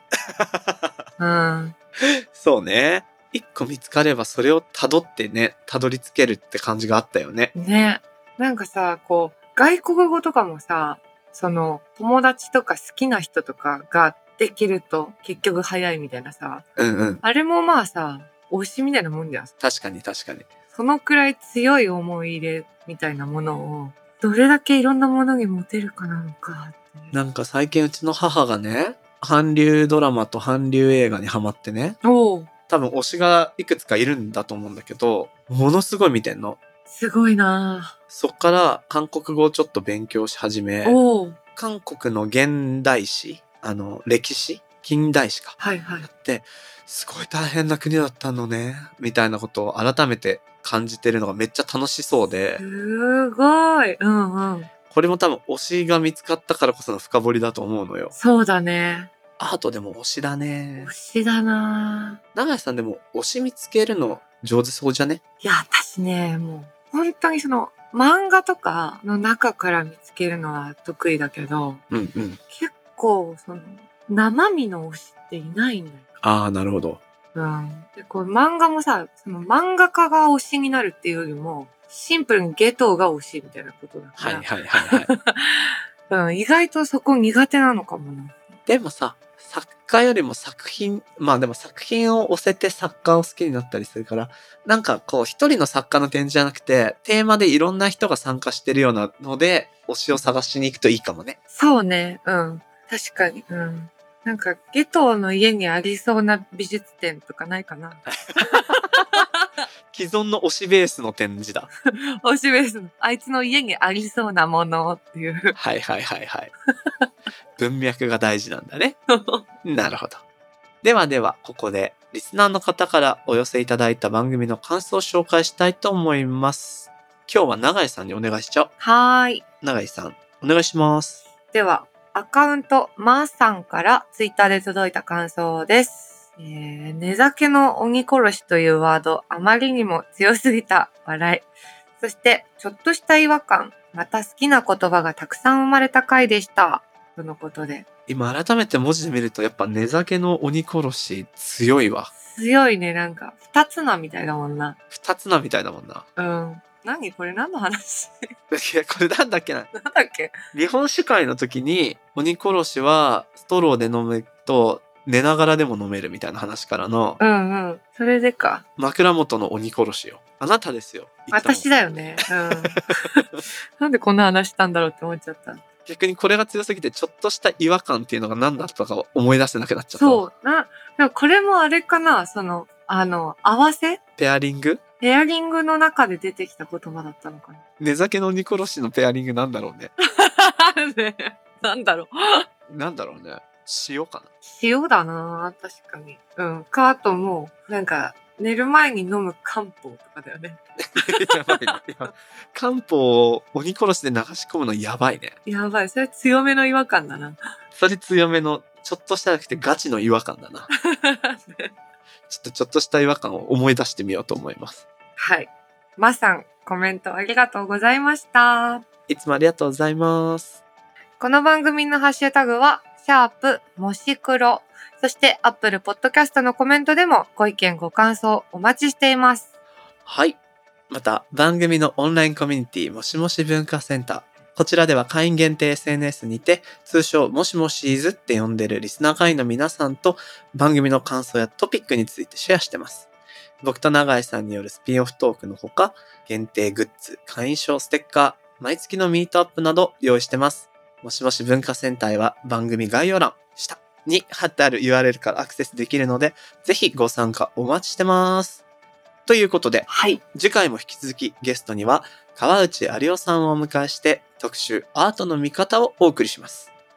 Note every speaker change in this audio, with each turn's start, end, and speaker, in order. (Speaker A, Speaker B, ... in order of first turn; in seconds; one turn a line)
Speaker A: 0.3-1.1
Speaker B: 1.2-1.7
Speaker A: 2.0-7.5
Speaker B: 7.5-16.6
Speaker A: 16.8-17.2
Speaker B: 17.2-19.5
Speaker A: 19.6-20.5
Speaker B: 20.7-27.1
Speaker A: 27.1-32.0
Speaker B: 32.0-32.5
Speaker A: 32.7-36.6
Speaker B: 36.9-38.0
Speaker A: 38.1-41.0
Speaker B: 40.8-41.4
Speaker A: 41.5-52.6
Speaker B: 45.6-46.1
Speaker B: 52.6-54.7
Speaker A: 54.9-58.1
Speaker B: 58.1-59.1
Speaker A: 59.4-60.9
Speaker B: 60.8-62.2
Speaker A: 62.3-65.2
Speaker B: 65.4-71.8
Speaker A: 71.9-72.4
Speaker B: 72.5-76.0
Speaker A: 76.2-77.0
Speaker B: 77.3-88.4
Speaker A: 84.2-85.1
Speaker A: 88.7-101.4
Speaker B: 101.5-109.6
Speaker A: 108.3-109.2
Speaker A: 109.9-111.7
Speaker B: 112.2-115.5
Speaker A: 115.5-116.5
Speaker A: 117.6-119.0
Speaker B: 119.1-119.4
Speaker A: 119.6-120.2
Speaker A: 120.8-128.7
Speaker B: 128.8-129.4
Speaker A: 129.6-131.2
Speaker B: 131.5-141.5
Speaker B: 142.0-147.8
Speaker A: 148.1-152.1
Speaker B: 152.2-154.8
Speaker A: 154.9-156.1
Speaker B: 156.2-158.3
Speaker A: 158.5-159.7
Speaker B: 159.7-160.3
Speaker A: 160.5-167.2
Speaker B: 167.2-168.6
Speaker A: 168.8-171.7
Speaker B: 171.3-175.6
Speaker A: 173.2-173.4
Speaker A: 175.8-180.3
Speaker B: 180.0-184.0
Speaker A: 184.2-184.8
Speaker B: 185.0-187.6
Speaker A: 187.8-189.9
Speaker B: 190.1-192.4
Speaker A: 192.7-194.3
Speaker B: 194.4-201.6
Speaker A: 200.8-205.3
Speaker B: 205.4-207.4
Speaker A: 207.8-210.7
Speaker B: 210.9-211.7
Speaker A: 212.3-214.8
Speaker B: 215.2-218.8
Speaker A: 219.1-220.6
Speaker B: 221.2-229.5
Speaker A: 230.1-230.4
Speaker A: 230.9-243.1
Speaker A: 243.6-258.6
Speaker A: 259.2-266.7
Speaker B: 259.9-260.2